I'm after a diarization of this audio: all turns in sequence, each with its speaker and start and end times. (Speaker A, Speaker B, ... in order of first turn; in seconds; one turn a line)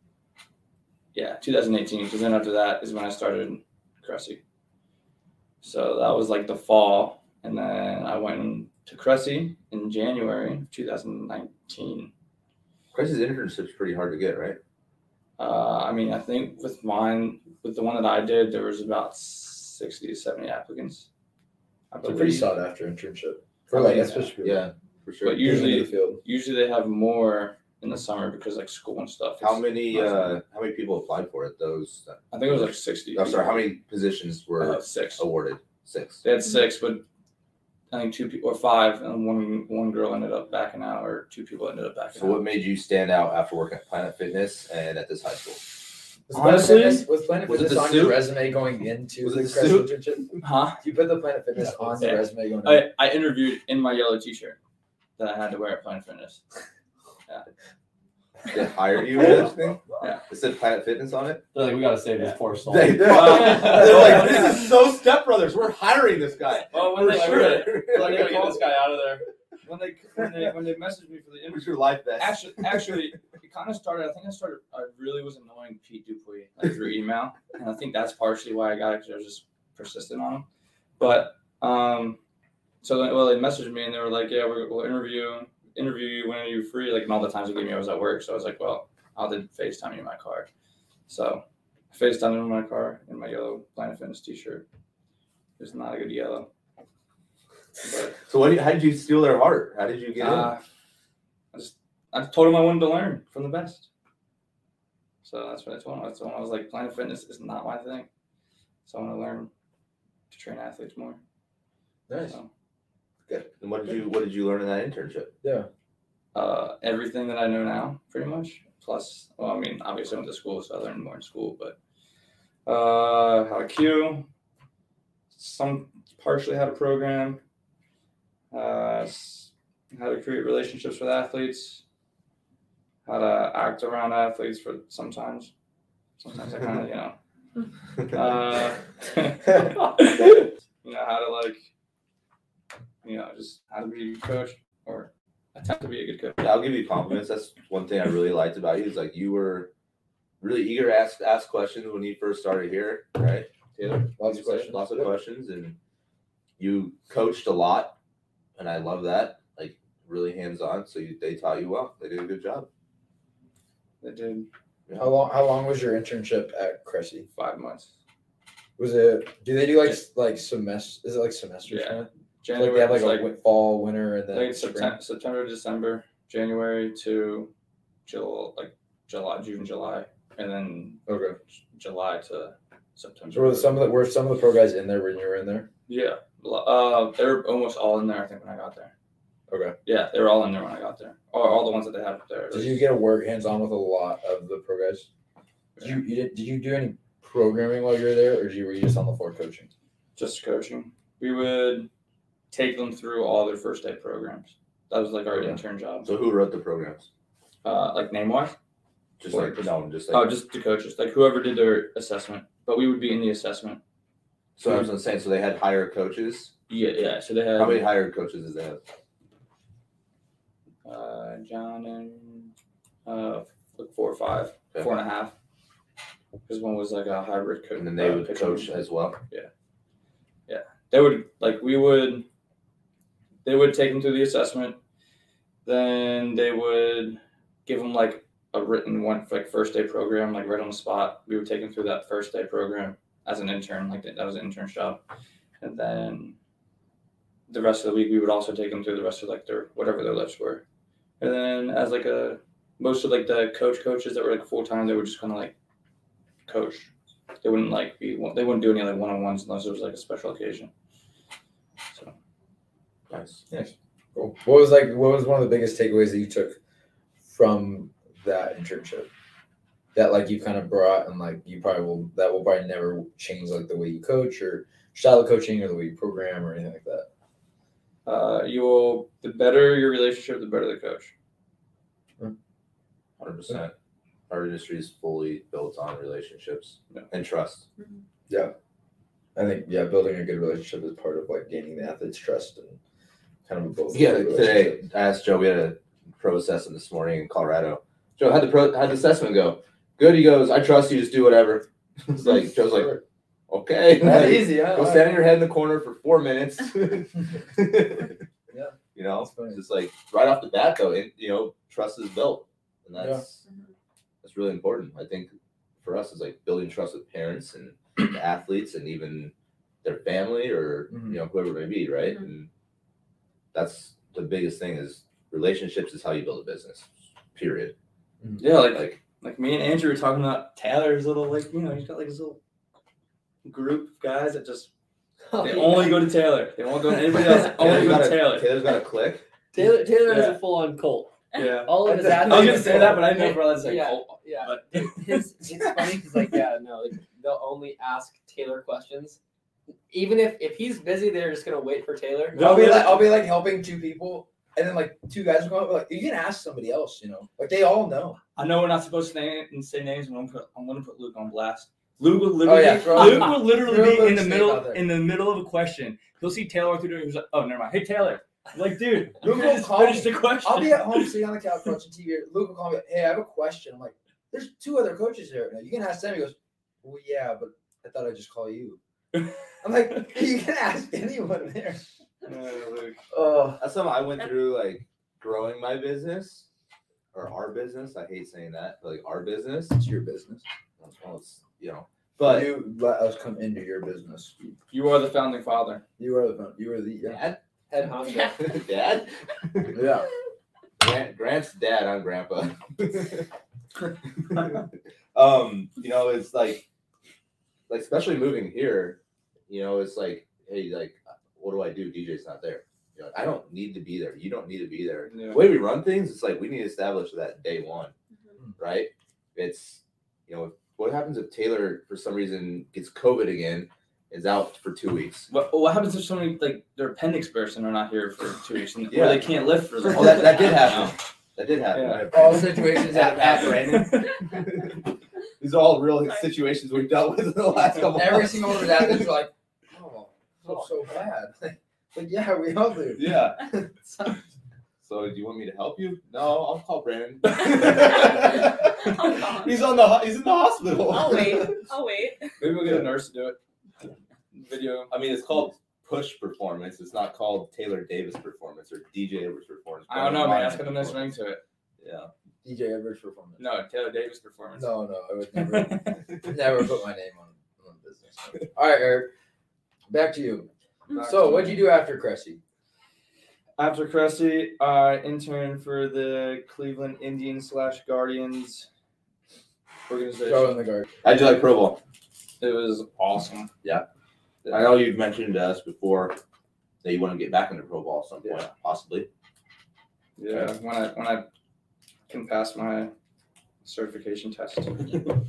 Speaker A: 1.1-4.4
Speaker A: 5.6-12.1
Speaker B: 12.9-14.6
Speaker A: 15.4-21.1
Speaker A: 21.9-22.5
Speaker C: 22.0-24.7
Speaker B: 23.7-25.8
Speaker A: 25.2-30.4
Speaker C: 25.3-26.2
Speaker B: 29.4-36.2
Speaker A: 32.3-33.6
Speaker A: 34.6-35.3
Speaker A: 36.2-37.0
Speaker A: 37.9-42.4
Speaker B: 42.1-45.6
Speaker C: 46.3-52.9
Speaker A: 46.3-47.1
Speaker B: 47.5-48.3
Speaker B: 49.2-50.0
Speaker A: 50.4-50.8
Speaker A: 52.0-54.6
Speaker A: 55.2-56.4
Speaker B: 58.5-61.5
Speaker D: 61.5-63.5
Speaker B: 62.7-68.7
Speaker A: 63.0-64.6
Speaker C: 63.2-64.0
Speaker A: 66.7-80.5
Speaker B: 71.5-73.0
Speaker A: 81.0-82.2
Speaker A: 82.8-90.5
Speaker A: 91.1-94.7
Speaker A: 95.6-96.5
Speaker A: 97.8-98.2
Speaker B: 98.3-100.5
Speaker A: 100.2-100.6
Speaker A: 101.5-103.9
Speaker A: 105.2-108.1
Speaker A: 108.9-109.5
Speaker A: 110.3-111.2
Speaker C: 112.1-112.4
Speaker B: 113.3-115.3
Speaker C: 115.4-115.7
Speaker A: 116.3-121.8
Speaker A: 122.7-124.3
Speaker A: 125.3-127.4
Speaker A: 128.5-131.8
Speaker A: 133.1-135.5
Speaker A: 136.2-137.2
Speaker A: 138.1-141.6
Speaker A: 143.0-146.5
Speaker B: 146.4-149.7
Speaker B: 150.4-155.8
Speaker C: 154.1-155.1
Speaker B: 156.6-158.0
Speaker B: 158.6-162.7
Speaker A: 164.0-164.5
Speaker B: 164.9-165.1
Speaker C: 165.0-167.3
Speaker A: 167.4-167.9
Speaker C: 168.8-175.0
Speaker A: 171.7-173.3
Speaker A: 174.3-177.5
Speaker A: 178.1-181.0
Speaker C: 181.1-181.4
Speaker A: 181.7-183.9
Speaker C: 183.3-185.7
Speaker A: 185.9-188.9
Speaker C: 189.5-189.8
Speaker A: 189.8-192.9
Speaker C: 192.5-195.1
Speaker A: 195.8-196.0
Speaker C: 195.8-199.7
Speaker A: 200.2-201.9
Speaker A: 202.5-206.1
Speaker C: 205.3-205.6
Speaker B: 206.0-207.1
Speaker A: 207.6-208.6
Speaker B: 209.2-210.3
Speaker A: 209.3-213.8
Speaker B: 214.6-216.6
Speaker A: 216.7-217.9
Speaker B: 217.6-218.8
Speaker A: 220.8-222.5
Speaker A: 223.1-225.3
Speaker A: 226.5-228.8
Speaker B: 227.8-229.2
Speaker A: 230.5-232.3
Speaker A: 233.4-234.8
Speaker A: 235.7-245.0
Speaker A: 245.6-246.4
Speaker A: 247.5-250.6
Speaker A: 251.2-255.5
Speaker A: 256.5-256.9
Speaker A: 257.4-260.7
Speaker B: 263.1-263.4
Speaker C: 263.5-266.6
Speaker C: 267.3-269.1
Speaker C: 269.9-277.1
Speaker A: 278.1-281.1
Speaker B: 283.2-283.7
Speaker B: 284.3-287.6
Speaker C: 289.4-292.8
Speaker C: 293.5-294.8
Speaker B: 293.9-303.0
Speaker C: 302.7-303.0
Speaker B: 303.5-308.2
Speaker C: 304.0-305.3
Speaker C: 308.5-309.6
Speaker B: 308.9-313.4
Speaker C: 313.0-313.2
Speaker B: 314.2-319.3
Speaker B: 319.8-322.5
Speaker C: 320.9-321.2
Speaker B: 323.5-327.7
Speaker A: 328.4-332.4
Speaker B: 328.5-329.0
Speaker A: 333.4-334.7
Speaker E: 335.3-336.1
Speaker A: 335.4-338.5
Speaker B: 337.2-339.2
Speaker E: 339.5-349.2
Speaker A: 340.0-340.4
Speaker A: 341.4-345.3
Speaker C: 341.8-343.1
Speaker E: 349.9-352.6
Speaker A: 352.3-353.2
Speaker C: 352.4-358.2
Speaker A: 358.4-371.2
Speaker C: 362.4-364.8
Speaker C: 369.2-378.8
Speaker C: 379.6-381.9
Speaker A: 382.2-383.0
Speaker C: 383.1-383.6
Speaker B: 383.6-386.5
Speaker B: 387.1-389.8
Speaker C: 389.7-390.4
Speaker B: 390.8-392.5
Speaker C: 392.2-394.4
Speaker A: 394.7-395.8
Speaker C: 396.0-397.2
Speaker B: 397.1-397.4
Speaker E: 397.7-398.6
Speaker B: 398.4-399.8
Speaker C: 399.7-400.1
Speaker B: 400.8-403.3
Speaker B: 404.3-404.6
Speaker B: 405.1-406.6
Speaker B: 407.7-417.9
Speaker A: 415.1-415.6
Speaker B: 418.6-425.3
Speaker A: 425.3-430.9
Speaker B: 428.9-434.8
Speaker A: 431.7-432.1
Speaker C: 432.1-433.7
Speaker A: 433.6-434.2
Speaker B: 435.4-439.1
Speaker C: 437.8-444.2
Speaker B: 442.9-443.5
Speaker B: 444.8-451.6
Speaker F: 447.6-449.6
Speaker F: 450.9-452.4
Speaker A: 452.4-453.4
Speaker A: 454.3-454.9
Speaker B: 454.9-461.1
Speaker A: 459.9-461.4
Speaker B: 461.8-462.1
Speaker C: 462.4-463.4
Speaker A: 463.4-464.8
Speaker C: 464.6-469.1
Speaker A: 465.3-466.0
Speaker C: 469.9-472.4
Speaker A: 470.9-471.7
Speaker A: 473.6-478.7
Speaker A: 479.9-480.6
Speaker C: 480.2-480.9
Speaker B: 481.0-481.8
Speaker A: 482.4-483.5
Speaker A: 484.4-484.7
Speaker B: 484.5-486.2
Speaker B: 486.8-489.1
Speaker A: 490.2-491.3
Speaker A: 492.1-492.9
Speaker A: 493.6-495.1